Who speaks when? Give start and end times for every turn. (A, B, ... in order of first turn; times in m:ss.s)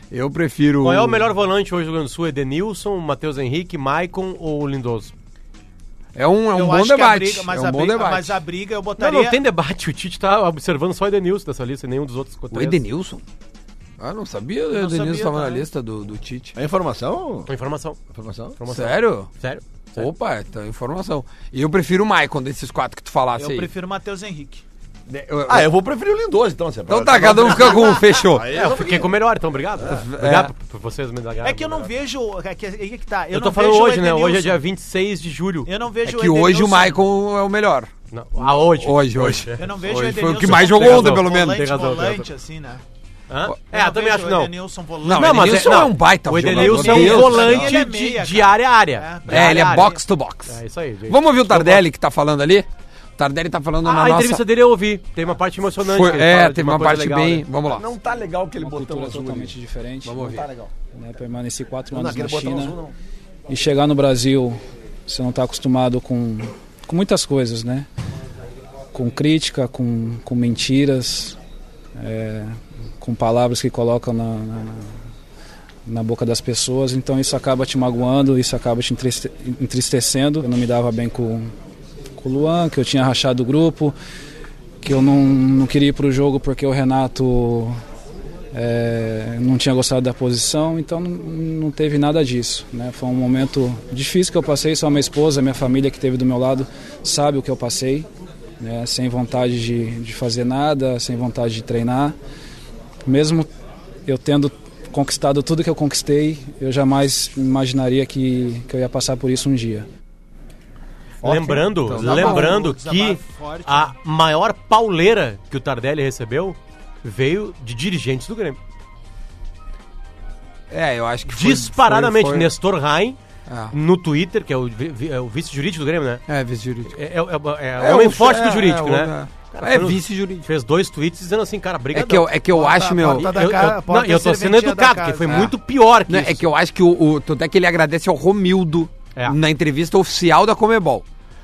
0:00.1-0:01.3 A
0:00.8-0:05.1 B
0:06.1-0:08.4 A
0:06.5-0:09.4 C
0:09.0-0:12.8 B
0:12.5-0:13.2 A
0:14.0-0:16.5 A
0:14.7-0:15.7 C
0:16.6-0:17.5 D
0:17.5-0:18.0 B
0:18.1-0:18.6 D
0:18.6-0:20.1 B
0:18.7-0:19.3 A
0:20.0-0:23.7 A
0:23.3-0:24.6 C
0:25.1-0:25.7 A
0:25.5-0:29.1 D
0:26.9-0:28.5 A
0:28.5-0:31.9 B
0:29.9-0:30.5 A
0:31.4-0:34.6 C
0:33.3-0:35.7 B
0:35.6-0:37.0 C
0:36.0-0:37.9 A
0:38.1-0:42.3 B
0:38.7-0:41.6 A
0:39.6-0:42.8 C
0:43.3-0:44.5 B
0:43.7-0:50.0 C
0:45.0-0:47.7 A
0:45.1-0:49.9 B
0:49.3-0:50.6 A
0:50.5-0:51.8 B
0:51.1-0:52.6 A
0:53.2-0:54.4 A
0:53.8-0:57.5 B
0:55.8-0:57.8 A
0:57.6-0:59.5 D
0:58.6-1:00.4 E
1:00.0-1:00.7 D
1:00.1-1:00.4 A
1:00.9-1:02.8 E
1:01.9-1:02.9 D
1:03.5-1:07.9 E
1:08.9-1:11.4 E
1:12.0-1:14.9 E
1:15.8-1:21.5 E
1:22.2-1:23.9 E
1:24.8-1:27.8 E
1:28.5-1:38.1 E
1:38.6-1:42.1 E
1:43.0-1:43.5 E
1:44.0-1:49.9 E
1:51.2-1:58.6 B
1:51.3-1:53.9 C
1:51.8-1:52.6 A
2:00.7-2:02.5 A
2:01.3-2:03.2 B
2:03.5-2:03.7 A
2:03.7-2:06.2 B
2:06.3-2:07.0 A
2:06.9-2:12.3 B
2:07.8-2:10.5 A
2:11.9-2:13.5 A
2:12.5-2:15.5 C
2:13.1-2:16.4 B
2:15.3-2:15.5 A
2:16.1-2:21.0 A